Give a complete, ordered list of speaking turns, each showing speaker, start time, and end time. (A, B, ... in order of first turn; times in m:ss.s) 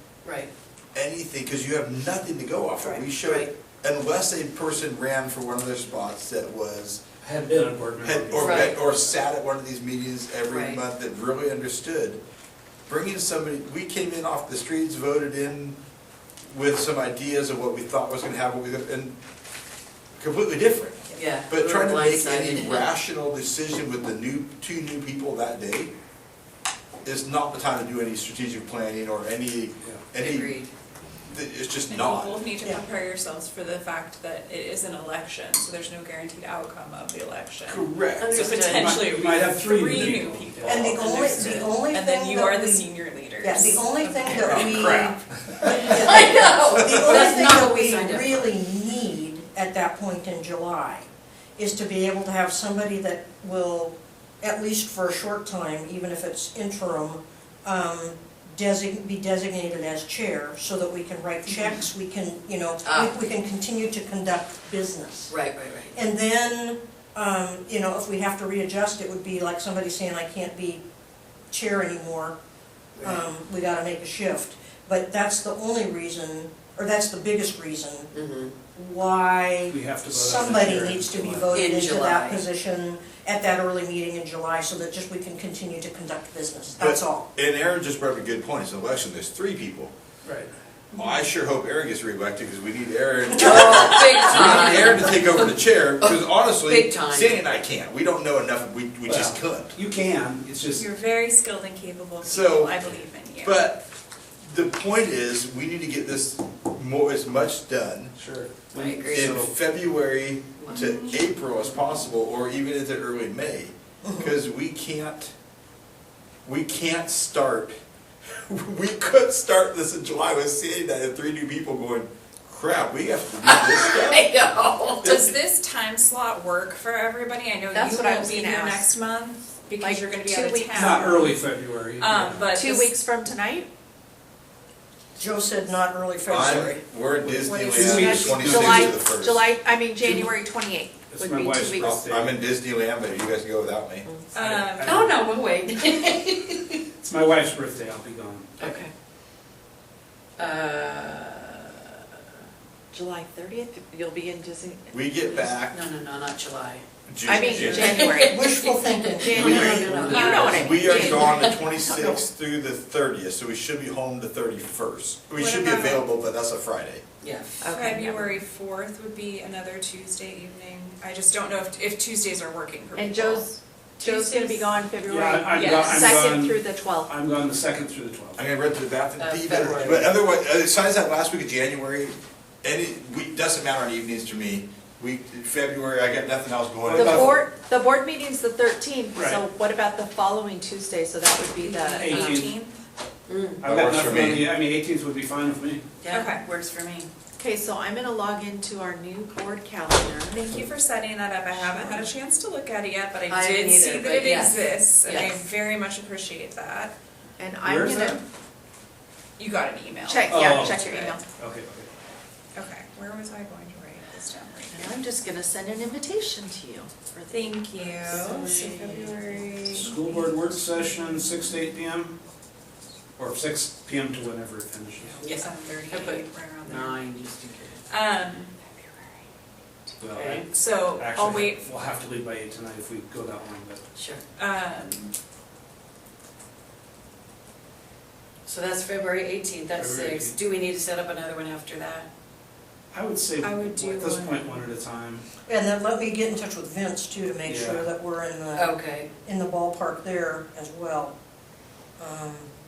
0:00.2-0:00.5 A
0:00.9-0:07.0 B
0:02.8-0:03.5 A
0:07.2-0:09.1 C
0:08.0-0:12.2 B
0:08.4-0:08.8 A
0:10.5-0:10.8 A
0:12.9-0:15.8 B
0:16.4-0:19.2 B
0:20.2-0:25.9 B
0:21.1-0:22.9 A
0:27.0-0:30.6 B
0:30.1-0:30.7 A
0:31.3-0:32.4 B
0:31.9-0:44.4 D
0:37.7-0:41.4 C
0:37.9-0:38.3 B
0:38.2-0:39.0 A
0:40.6-1:05.4 E
0:44.3-0:45.1 B
0:44.4-0:44.8 A
0:45.8-0:48.5 A
1:02.8-1:03.2 A
1:05.3-1:06.0 A
1:05.9-1:10.8 E
1:11.5-1:12.4 E
1:13.0-1:13.2 A
1:13.0-1:18.1 E
1:18.1-1:18.5 A
1:18.7-1:27.3 E
1:19.7-1:21.6 C
1:21.5-1:22.4 A
1:26.8-1:29.9 B
1:30.2-1:30.5 C
1:30.9-1:31.2 D
1:31.0-1:39.8 B
1:33.3-1:37.4 A
1:33.4-1:34.9 E
1:39.0-1:40.9 C
1:40.8-1:43.6 D
1:42.2-1:42.8 B
1:43.4-1:43.8 B
1:44.4-1:48.1 B
1:48.2-1:49.5 C
1:48.7-1:49.4 A
1:49.1-1:55.3 B
1:50.6-1:50.9 A
1:50.7-1:51.3 D
1:54.0-1:54.3 E
1:56.4-1:57.8 B
1:58.3-2:04.4 B
2:03.4-2:04.9 A
2:04.0-2:05.0 F
2:04.9-2:11.3 D
2:05.0-2:05.3 B
2:07.7-2:08.8 F
2:09.8-2:11.1 F
2:10.7-2:12.5 C
2:12.0-2:12.9 D
2:12.5-2:13.7 F
2:15.2-2:16.8 E
2:16.3-2:19.5 B
2:17.2-2:19.1 C
2:17.8-2:18.0 A
2:17.9-2:21.9 F
2:21.1-2:22.4 C
2:21.8-2:24.1 B
2:24.3-2:25.1 D
2:24.4-2:25.1 C
2:24.8-2:26.7 A
2:25.0-2:26.4 F
2:27.0-2:28.8 C
2:28.6-2:28.9 A
2:30.4-2:32.0 A
2:32.9-2:34.5 F
2:33.1-2:41.6 A
2:34.9-2:35.8 B
2:37.1-2:38.1 B
2:37.2-2:38.6 F
2:37.7-2:40.2 E
2:39.2-2:42.2 F
2:39.3-2:47.0 B
2:40.1-2:41.2 D
2:45.4-2:46.1 D
2:47.2-2:48.4 A
2:47.6-2:48.2 F
2:47.7-2:54.7 D
2:53.0-2:57.1 F
2:54.0-2:54.6 A
2:55.0-2:58.4 C
2:55.5-2:56.3 D
2:55.9-2:56.2 A
2:58.4-3:07.4 B
2:59.2-3:00.1 A
2:59.6-3:00.0 C
3:06.8-3:07.4 C
3:07.0-3:12.1 F
3:09.1-3:09.5 C
3:11.6-3:12.7 D
3:11.9-3:12.6 C
3:13.3-3:13.6 A
3:13.6-3:15.8 C
3:13.6-3:14.5 B
3:16.0-3:16.4 A
3:16.1-3:17.1 D
3:17.4-3:20.4 F
3:20.3-3:26.9 D
3:23.3-3:25.4 A
3:27.4-3:28.2 F
3:27.6-3:28.2 C
3:29.4-3:31.2 D
3:30.1-3:31.2 F
3:30.3-3:31.9 C
3:32.5-3:34.9 D
3:34.8-3:39.6 F
3:37.3-3:41.4 D
3:37.9-3:39.2 A
3:39.7-3:42.2 C
3:43.2-3:45.2 C
3:45.0-3:47.0 D
3:45.2-3:47.8 A
3:47.9-3:48.5 D
3:50.0-3:53.8 C
3:50.1-3:50.5 A
3:50.5-3:51.6 D
3:53.9-3:54.2 A
3:54.4-3:55.1 D
3:58.4-4:02.1 A
3:59.7-4:00.4 C
4:02.9-4:05.2 C
4:03.4-4:04.6 D
4:05.5-4:11.1 E
4:07.4-4:07.9 C
4:08.5-4:09.1 A
4:12.0-4:12.5 E